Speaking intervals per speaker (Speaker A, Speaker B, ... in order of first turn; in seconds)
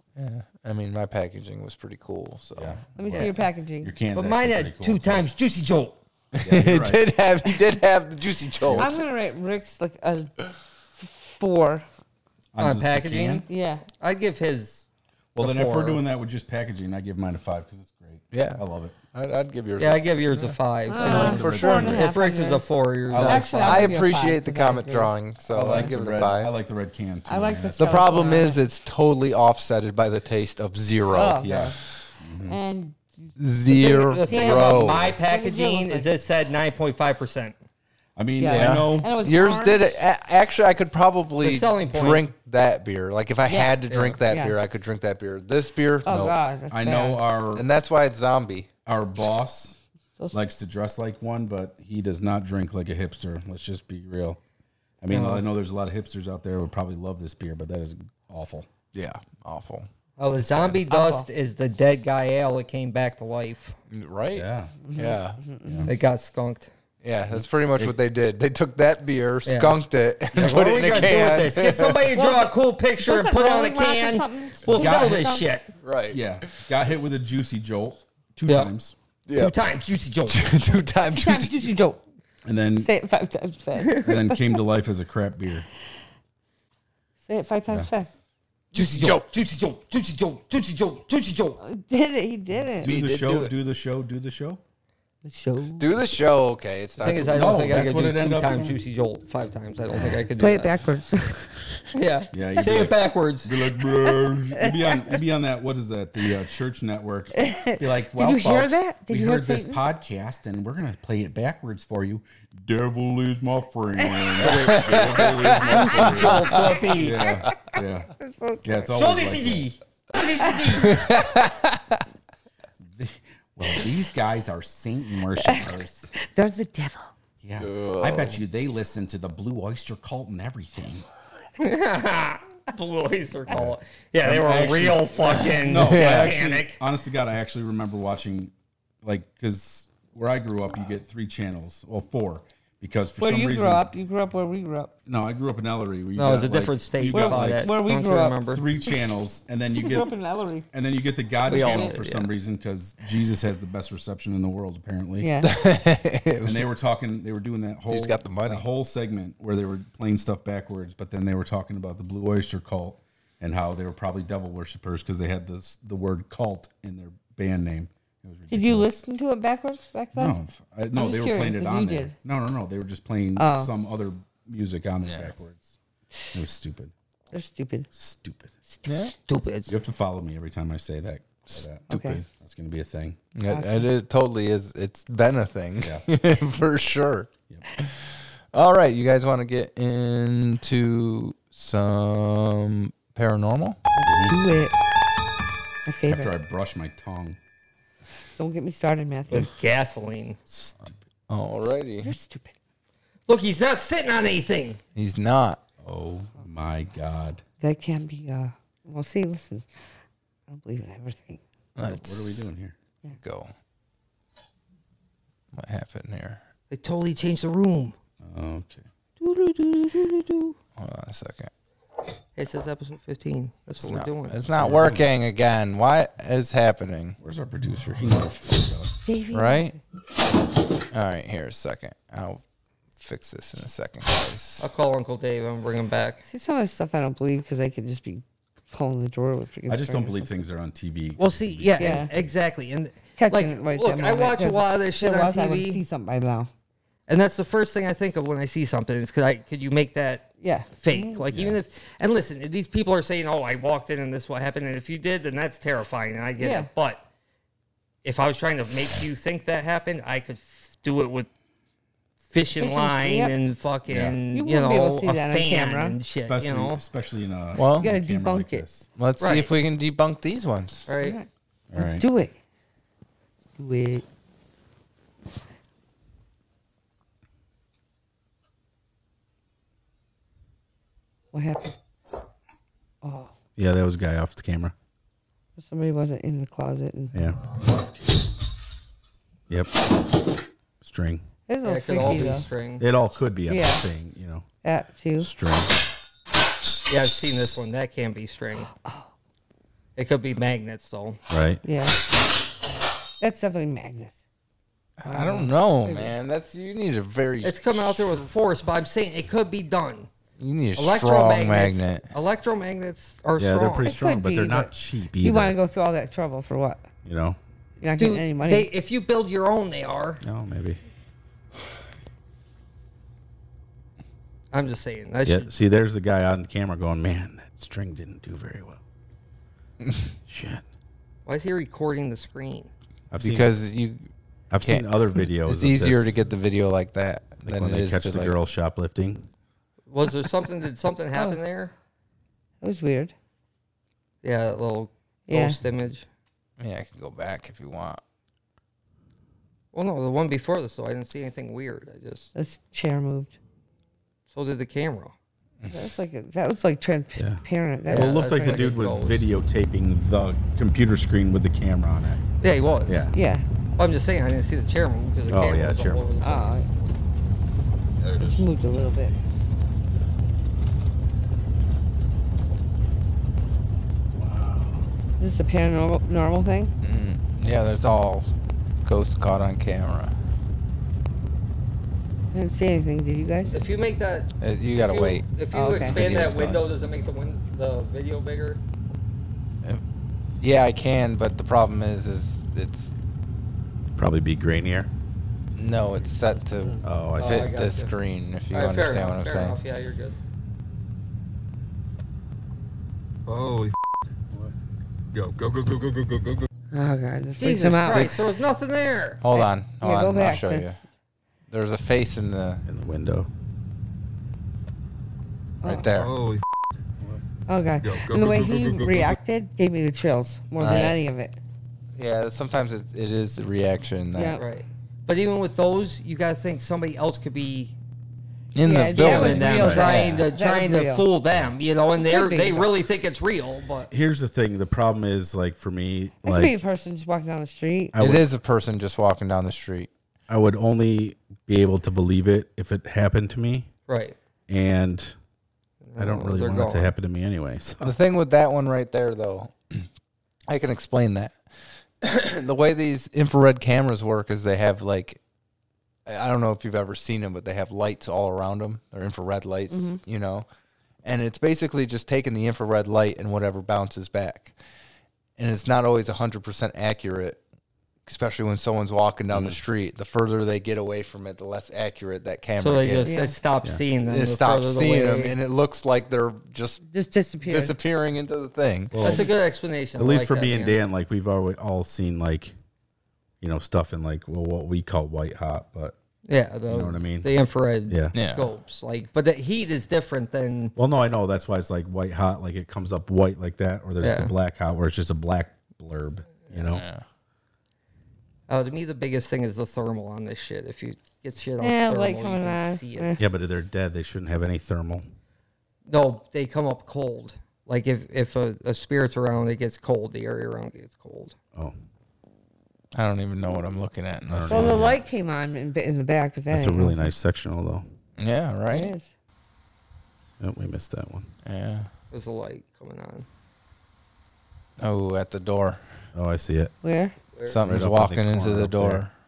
Speaker A: 0.2-2.8, 6.3-9.0, 18.3-22.1, 23.2-26.5, 27.8-31.8, 33.4-35.1, 38.5-46.4, 47.5-48.7, 58.9-59.9, 63.9-65.4, 67.0-72.1, 75.8-76.6, 79.3-79.6, 80.3-81.7, 88.7-89.2, 92.8-93.5, 95.8-97.9, 114.4-117.5, 120.9-122.0, 127.6-128.4, 135.3-136.4, 155.4-156.7, 157.9-158.7, 175.0-175.3, 178.9-179.1, 183.4-193.8, 201.3-202.2, 204.9-205.6, 211.8-212.5, 213.2-213.5, 215.5-216.4, 220.8-221.5, 223.8-227.2, 229.3-229.8, 230.9-232.4, 233.0-234.7, 267.6-267.9, 269.0-270.9, 305.0-308.3, 310.4-312.1, 333.2-334.1, 334.6-338.4, 346.6-348.0, 376.8-378.3, 378.9-380.1, 384.4-385.3, 385.9-386.7, 390.4-392.9, 395.5-399.6, 409.2-410.8, 411.5-412.6, 415.6-416.2, 420.6-421.0, 422.0-424.4, 428.6-430.3, 438.0-439.9, 447.8-449.9, 450.5-451.4, 452.0-455.2, 456.1-460.5, 461.1-464.5, 465.4-467.4, 468.1-473.3, 474.1-476.8, 477.4-479.2, 488.1-488.5, 496.7-497.0, 512.9-514.9, 518.2-518.9, 521.4-521.9, 524.8-526.0, 527.5-529.1
Speaker B: 2.5-5.3, 6.4-7.0, 8.6-9.0, 12.5-13.4, 15.3-19.0, 21.0-22.0, 23.1-23.9, 25.5-28.1, 31.4-32.6, 38.2-39.1, 46.7-47.7, 48.9-49.8, 50.3-54.4, 55.0-58.7, 64.3-64.7, 65.7-65.9, 67.3-68.0, 74.7-75.3, 76.1-79.0, 82.4-82.9, 84.0-85.7, 92.8-94.6, 97.0-98.8, 102.3-118.1, 118.6-119.7, 122.8-126.1, 127.4-131.1, 133.5-143.9, 145.1-147.7, 148.5-150.1, 150.7-155.3, 156.4-169.0, 170.2-175.8, 176.3-176.9, 177.9-178.5, 179.7-183.2, 185.8-186.1, 194.1-194.4, 196.1-197.4, 200.5-201.0, 205.8-207.4, 211.8-212.8, 218.2-218.9, 224.5-225.1, 227.2-228.9, 239.7-242.3, 251.3-251.6, 263.9-264.2, 266.1-268.9, 271.7-272.1, 283.6-284.8, 287.1-288.2, 290.8-291.2, 292.0-292.2, 292.8-294.5, 295.2-295.8, 301.3-301.6, 313.4-315.6, 317.0-317.4, 320.2-320.8, 325.2-328.8, 330.3-330.6, 333.1-333.5, 334.5-336.1, 337.4-339.3, 357.2-362.2, 362.9-363.1, 365.3-366.0, 394.0-394.9, 396.8-397.6, 412.7-413.3, 429.6-429.9, 433.9-436.6, 437.9-438.3, 440.3-443.7, 444.5-445.1, 446.0-447.9, 469.3-469.6, 478.9-479.3, 480.0-482.5, 483.4-486.0, 486.7-487.3, 487.9-488.1, 490.8-496.8, 503.2-505.1, 514.3-515.0, 516.5-517.9, 520.4-521.3, 526.1-526.7, 527.6-529.1
Speaker C: 3.0-3.9, 8.8-10.4, 11.0-11.9, 13.5-13.8, 20.9-22.7, 23.2-25.1, 27.3-28.6, 31.1-31.8, 32.5-33.3, 34.1-36.1, 38.4-40.0, 43.5-44.6, 46.1-47.2, 60.9-61.3, 64.8-65.9, 72.1-75.5, 81.1-82.0, 82.8-84.4, 87.2-88.1, 91.6-92.9, 95.2-96.0, 100.4-101.9, 104.6-105.2, 107.4-109.8, 118.2-118.8, 125.4-127.1, 143.2-144.9, 147.1-149.0, 149.7-150.7, 151.5-152.0, 155.2-155.5, 168.5-170.4, 170.9-172.2, 173.4-173.7, 177.3-177.9, 181.9-182.2, 183.5-183.9, 194.0-194.8, 195.9-196.3, 198.4-199.5, 202.0-202.5, 207.6-209.7, 210.5-211.4, 219.2-220.3, 229.1-229.8, 236.2-240.3, 241.8-242.1, 243.2-246.5, 250.4-251.2, 256.4-256.7, 262.6-263.4, 264.3-266.0, 267.8-268.7, 271.0-272.4, 273.6-274.1, 281.3-281.7, 283.0-283.3, 285.6-287.3, 291.5-292.5, 293.5-293.9, 294.6-295.3, 301.6-302.0, 303.2-304.2, 305.1-306.1, 313.8-316.9, 317.8-318.7, 341.1-341.4, 342.6-343.1, 345.3-345.6, 352.4-353.4, 355.7-358.7, 363.1-363.5, 366.2-366.7, 368.2-369.1, 375.2-376.7, 382.3-383.6, 385.5-386.0, 406.7-408.1, 409.3-410.8, 415.6-415.9, 417.5-421.4, 424.1-424.4, 428.6-431.1, 431.9-432.7, 436.2-437.9, 459.7-460.0, 473.1-473.4, 476.9-477.8, 501.6-503.2, 514.5-517.1, 518.7-519.1, 526.8-527.2
Speaker D: 3.1-3.4, 4.1-6.0, 12.6-14.9, 15.4-16.0, 19.8-23.9, 33.7-37.6, 41.4-42.2, 43.9-44.2, 55.1-55.5, 60.2-63.7, 65.9-66.7, 69.5-69.8, 70.3-75.7, 78.5-78.7, 79.3-80.4, 88.7-91.6, 97.0-100.7, 101.9-103.5, 114.4-117.4, 118.9-121.1, 131.6-136.8, 146.2-148.7, 151.5-152.3, 179.2-179.8, 199.3-200.4, 203.3-204.8, 216.7-218.0, 222.4-224.5, 234.6-236.2, 241.2-245.8, 247.1-257.1, 258.0-261.3, 262.3-266.8, 269.2-269.5, 270.9-271.2, 291.6-292.9, 296.9-298.7, 300.0-301.2, 307.4-310.1, 310.8-313.9, 318.0-320.2, 324.5-325.5, 331.3-332.7, 339.9-341.7, 344.2-346.1, 349.7-352.3, 354.3-355.1, 357.9-359.2, 362.4-363.1, 363.8-366.7, 383.5-388.6, 397.2-397.9, 398.5-400.2, 407.4-409.2, 424.4-427.8, 428.7-433.9, 443.9-444.2, 445.8-446.9, 472.6-475.4, 479.0-480.8, 486.3-490.8, 494.0-494.3, 498.5-503.2, 505.9-511.4, 522.1-523.3, 527.4-527.6
Speaker E: 368.0-368.4, 403.3-403.8, 405.1-406.5, 415.9-416.4, 417.8-419.2